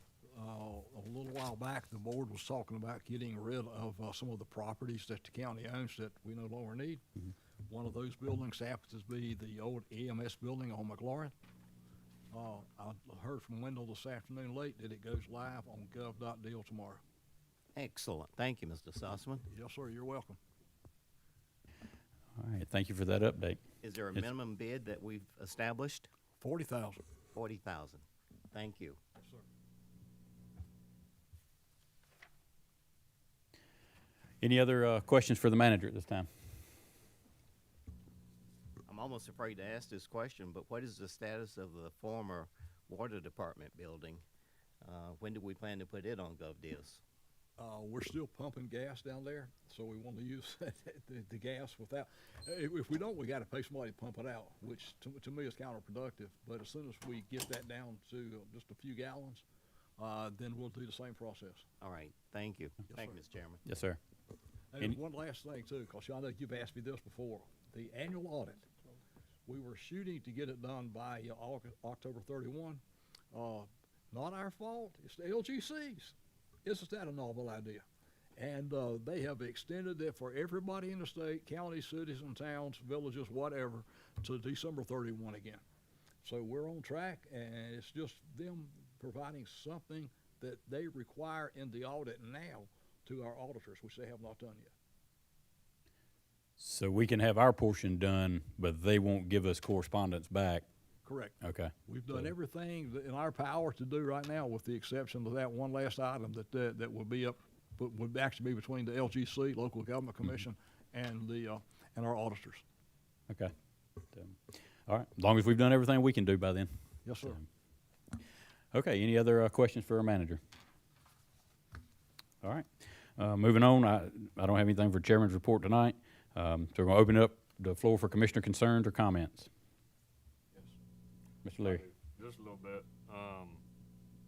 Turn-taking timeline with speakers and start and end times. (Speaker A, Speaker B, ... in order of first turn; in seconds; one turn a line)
Speaker A: 0.3-7.0
Speaker A: 7.7-11.3
Speaker A: 12.3-17.0
Speaker B: 17.7-19.4
Speaker A: 19.5-20.4
Speaker C: 22.4-23.6
Speaker B: 23.8-26.1
Speaker A: 26.4-27.0
Speaker B: 27.3-29.0
Speaker A: 29.2-29.4
Speaker C: 34.4-36.3
Speaker B: 38.9-44.2
Speaker B: 44.8-47.0
Speaker A: 47.6-59.4
Speaker A: 60.0-61.6
Speaker B: 61.8-63.6
Speaker C: 63.6-64.0
Speaker A: 64.7-68.7
Speaker A: 69.5-77.8
Speaker A: 78.3-85.6
Speaker A: 86.2-94.7
Speaker C: 96.6-100.6
Speaker A: 101.0-112.6
Speaker C: 101.4-102.3
Speaker C: 114.1-117.4
Speaker A: 117.0-117.4
Speaker C: 118.7-120.4
Speaker C: 122.4-129.5
Speaker C: 131.4-131.8
Speaker D: 131.6-133.6